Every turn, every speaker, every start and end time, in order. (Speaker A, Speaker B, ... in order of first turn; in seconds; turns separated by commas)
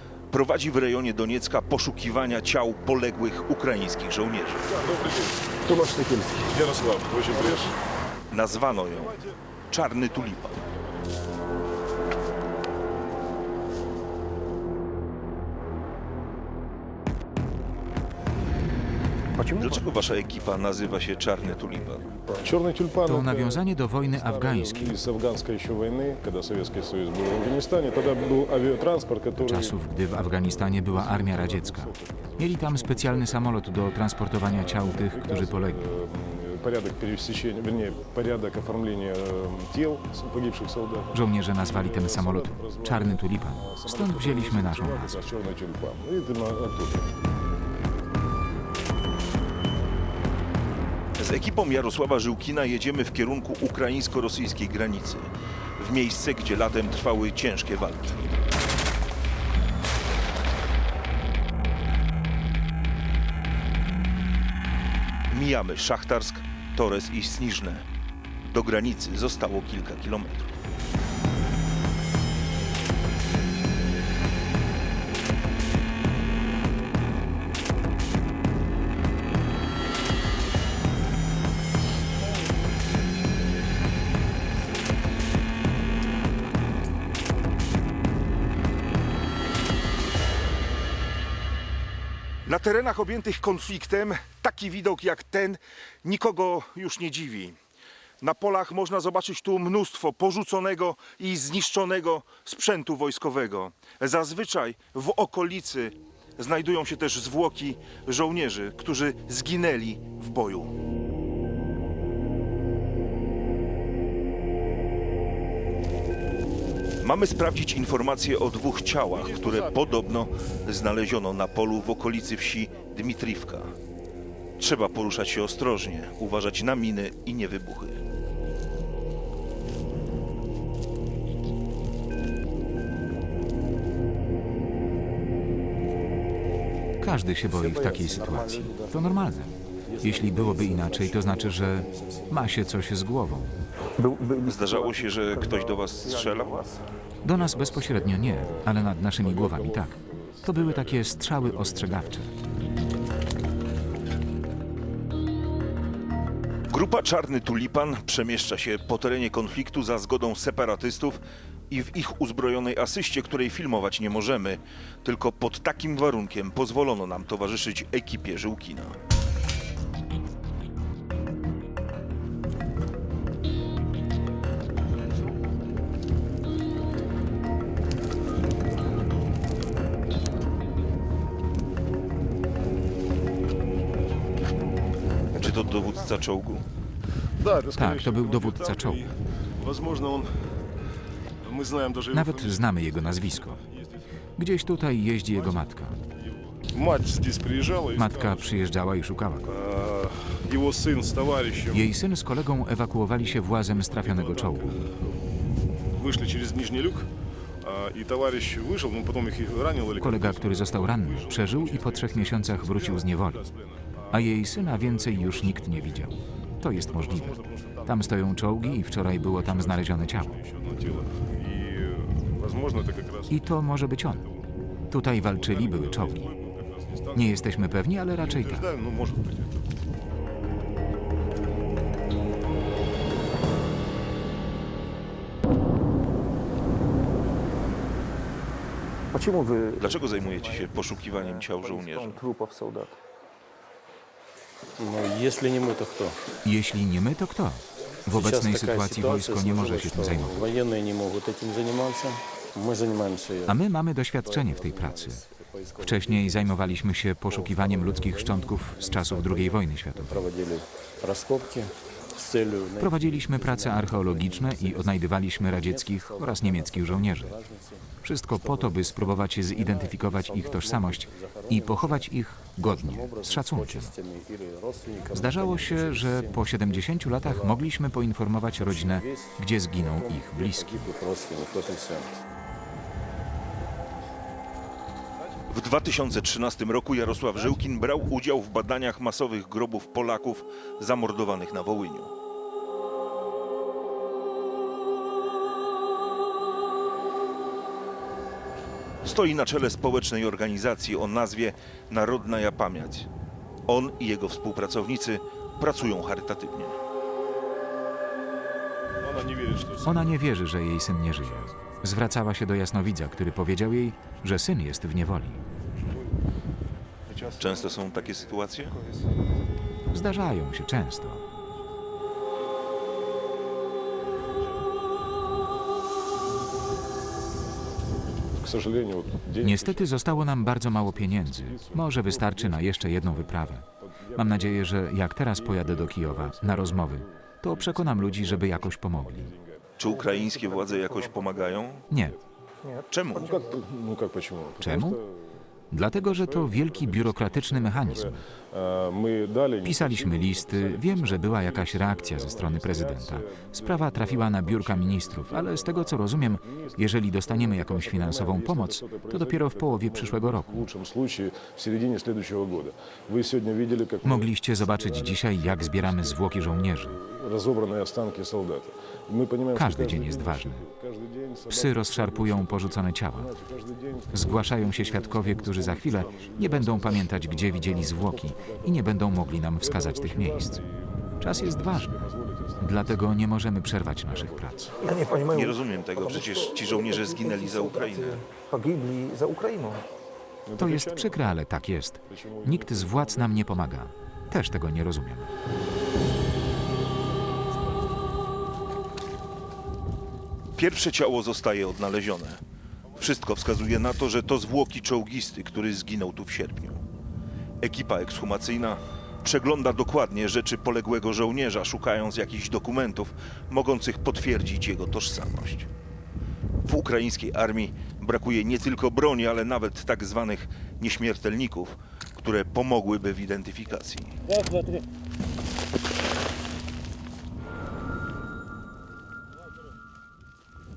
Speaker A: 0.3-4.7, Speaker B: 4.7-7.8, Speaker A: 8.3-9.2, Speaker B: 8.5-9.4, Speaker A: 9.7-10.7, Speaker B: 10.2-10.9, Speaker C: 19.4-20.2, Speaker A: 19.6-22.1, Speaker B: 20.3-21.5, Speaker C: 21.4-22.6, Speaker B: 22.2-33.7, Speaker D: 23.0-25.0, Speaker D: 29.4-35.9, Speaker B: 34.5-47.1, Speaker D: 41.1-45.2, Speaker A: 51.2-58.4, Speaker A: 65.3-67.9, Speaker A: 68.4-70.5, Speaker A: 92.5-97.6, Speaker A: 98.2-110.7, Speaker A: 117.0-123.7, Speaker A: 124.6-128.0, Speaker D: 137.0-143.6, Speaker E: 137.4-142.8, Speaker C: 144.0-146.9, Speaker A: 144.4-146.8, Speaker D: 147.2-152.3, Speaker B: 147.3-152.2, Speaker A: 156.7-169.0, Speaker A: 185.3-186.7, Speaker C: 185.4-186.1, Speaker B: 187.4-190.3, Speaker D: 187.7-189.0, Speaker B: 191.4-194.0, Speaker D: 192.1-193.6, Speaker D: 194.4-196.0, Speaker B: 195.3-198.7, Speaker D: 197.9-199.6, Speaker B: 199.4-201.9, Speaker D: 201.7-204.8, Speaker B: 203.8-204.9, Speaker B: 205.9-207.1, Speaker B: 207.6-224.5, Speaker D: 210.0-213.4, Speaker D: 214.1-220.4, Speaker D: 223.3-224.2, Speaker D: 224.9-226.3, Speaker B: 225.2-227.4, Speaker D: 227.1-228.7, Speaker B: 228.2-229.7, Speaker C: 239.1-243.0, Speaker A: 239.8-242.2, Speaker E: 244.8-246.2, Speaker D: 246.4-250.5, Speaker E: 248.1-253.6, Speaker D: 253.5-255.2, Speaker E: 254.1-272.1, Speaker D: 255.8-260.3, Speaker D: 262.8-267.3, Speaker D: 268.0-273.9, Speaker E: 272.6-277.7, Speaker D: 275.1-280.8, Speaker E: 278.6-282.2, Speaker A: 285.5-292.1, Speaker A: 299.0-303.1, Speaker A: 303.7-306.8, Speaker B: 309.0-310.1, Speaker D: 309.8-315.4, Speaker B: 311.2-311.5, Speaker B: 317.1-318.5, Speaker C: 317.1-317.8, Speaker A: 317.4-318.8, Speaker C: 318.6-319.1, Speaker D: 319.9-321.2, Speaker B: 328.3-342.2, Speaker D: 329.4-339.4, Speaker A: 339.8-341.9, Speaker C: 339.9-341.1, Speaker D: 341.9-342.2, Speaker C: 342.6-343.1, Speaker A: 342.9-343.4, Speaker B: 343.1-379.0, Speaker D: 344.6-345.0, Speaker D: 345.7-348.2, Speaker D: 349.6-360.7, Speaker D: 364.0-367.0, Speaker D: 369.6-370.7, Speaker D: 371.5-373.3, Speaker D: 374.1-380.6, Speaker B: 379.6-383.1, Speaker D: 381.2-382.0, Speaker D: 382.6-384.7, Speaker B: 384.1-384.7, Speaker C: 384.8-389.9, Speaker A: 385.3-388.3, Speaker B: 390.5-391.3, Speaker D: 390.6-395.3, Speaker B: 392.1-393.7, Speaker A: 400.6-402.4, Speaker A: 402.9-406.8, Speaker A: 407.6-415.7, Speaker A: 416.6-424.2